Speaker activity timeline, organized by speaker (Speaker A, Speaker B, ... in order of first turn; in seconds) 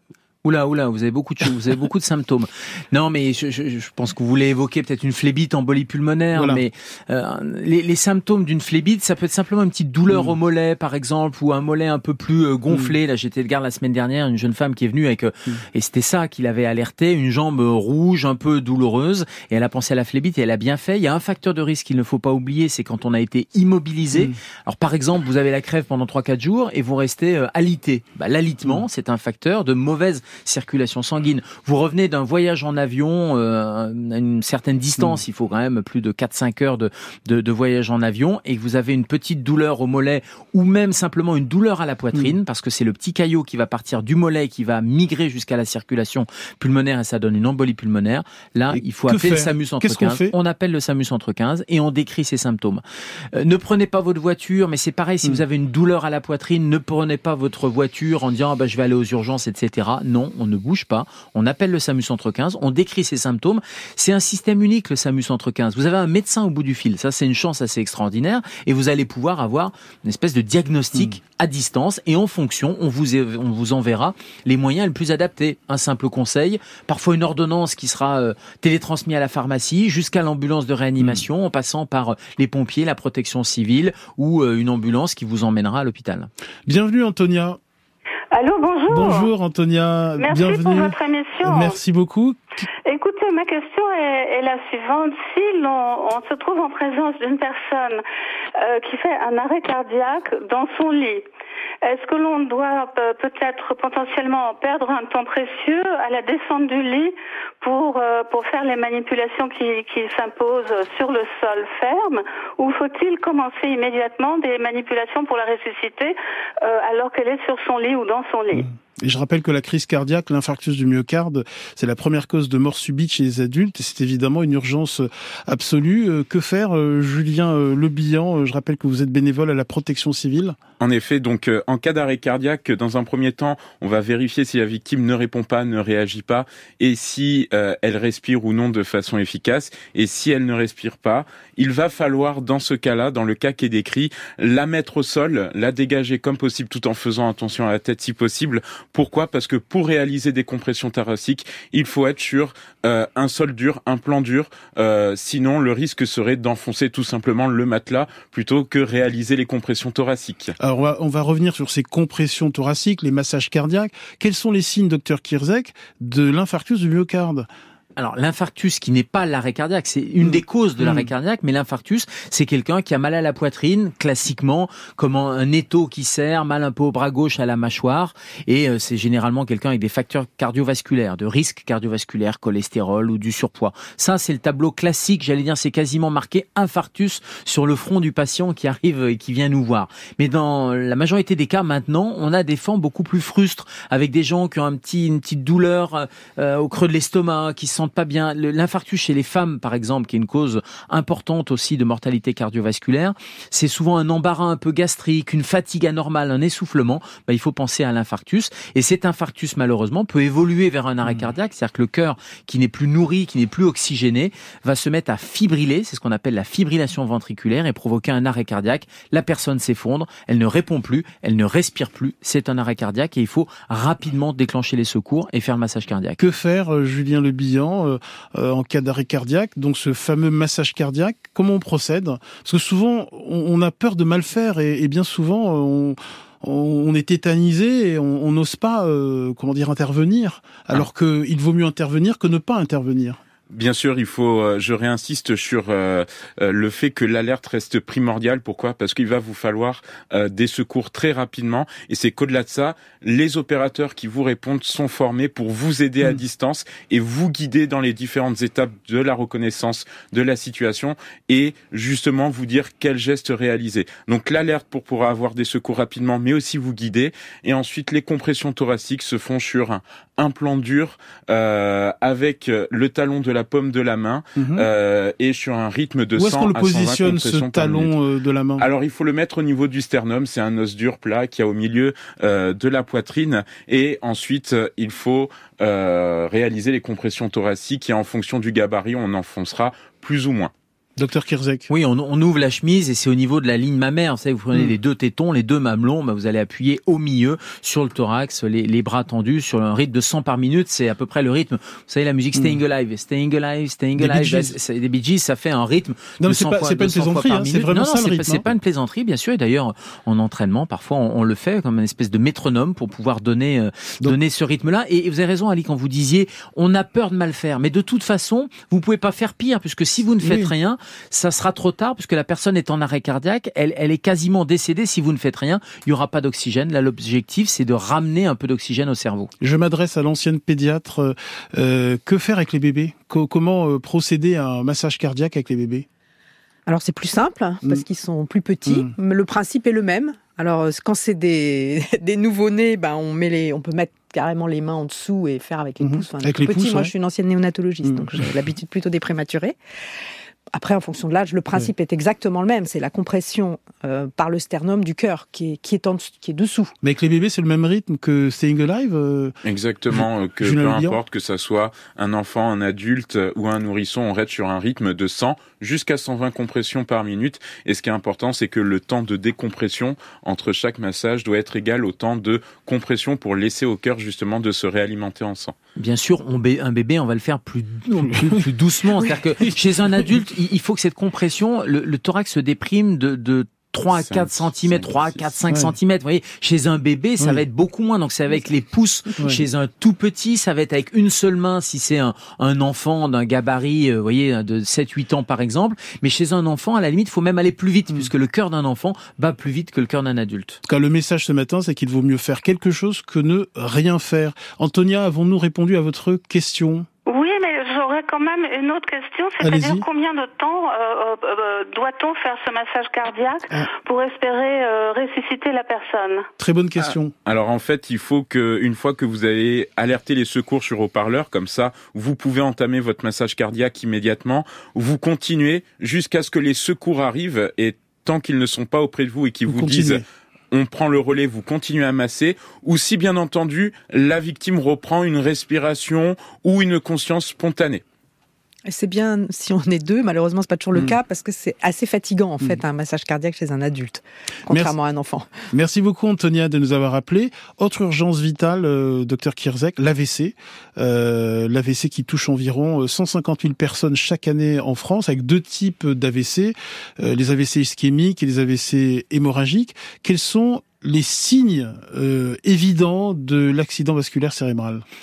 Speaker A: 0.4-52.8, 53.3-86.3, 168.0-226.2, 291.7-329.3, 375.8-400.6
Speaker B: 6.3-6.6, 10.1-10.3, 48.7-50.3, 86.7-87.6, 88.9-92.7, 118.6-130.6, 160.6-167.5, 170.2-171.1, 211.0-211.3, 226.2-243.2, 274.4-274.7, 276.2-278.7, 291.0-291.7, 302.4-302.6, 304.0-304.5, 306.2-308.5, 320.2-320.5, 329.4-335.9, 338.7-338.9, 345.8-346.9, 347.8-348.3, 356.8-359.3, 359.9-361.0, 378.0-378.4, 389.2-389.4, 400.6-406.9, 409.4-409.9, 416.4-417.1, 429.5-430.1, 444.5-444.8, 445.5-464.8
Speaker C: 88.3-89.3, 90.2-91.8, 92.9-98.0, 98.6-101.3, 101.8-118.7, 407.1-416.3
Speaker D: 130.8-160.6, 243.5-277.9, 278.6-290.5, 359.4-375.6, 383.9-384.9, 417.3-437.8
Speaker E: 336.7-349.6, 350.5-356.7, 438.7-445.3